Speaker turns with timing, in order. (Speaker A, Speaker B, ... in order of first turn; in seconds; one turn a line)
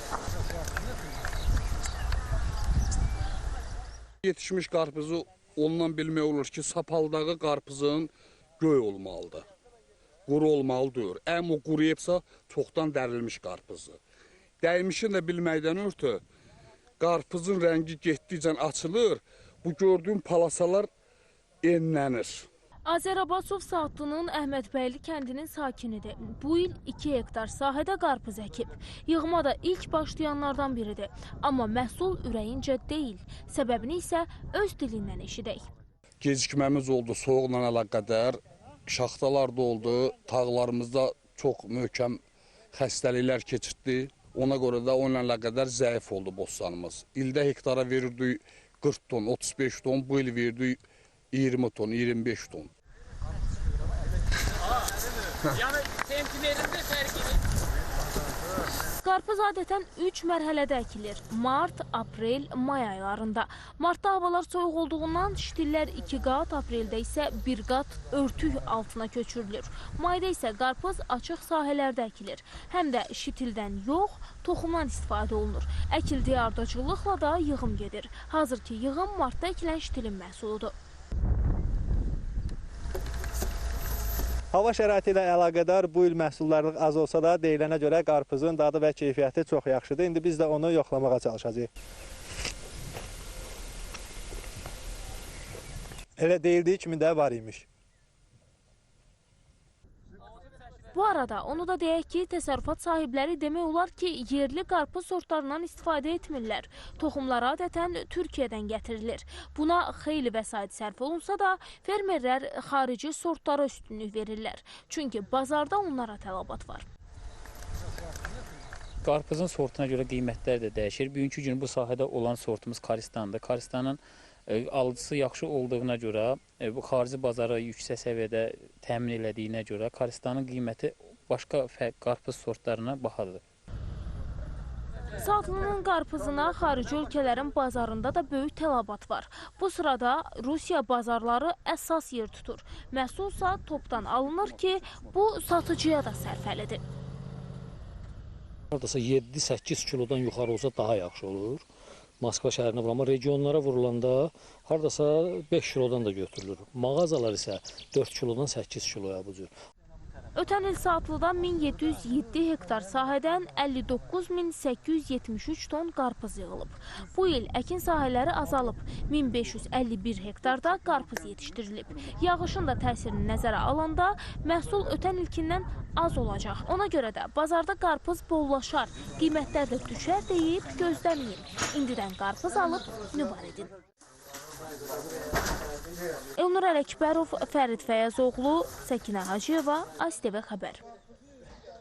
Speaker A: 4.2-9.5
Speaker A: 10.3-14.0
Speaker A: 14.6-16.2
Speaker A: 17.0-20.9
Speaker A: 21.6-22.5
Speaker B: 22.9-35.6
Speaker A: 36.2-42.2
Speaker A: 42.7-50.8
Speaker A: 51.3-52.7
Speaker B: 59.0-80.7
Speaker C: 84.5-91.7
Speaker C: 96.2-97.7
Speaker B: 100.9-116.8
Speaker D: 119.0-133.4
Speaker B: 135.2-146.8
Speaker E: 148.7-151.6
Speaker E: 152.2-159.5
Speaker B: 160.3-183.7
Speaker B: 186.4-190.8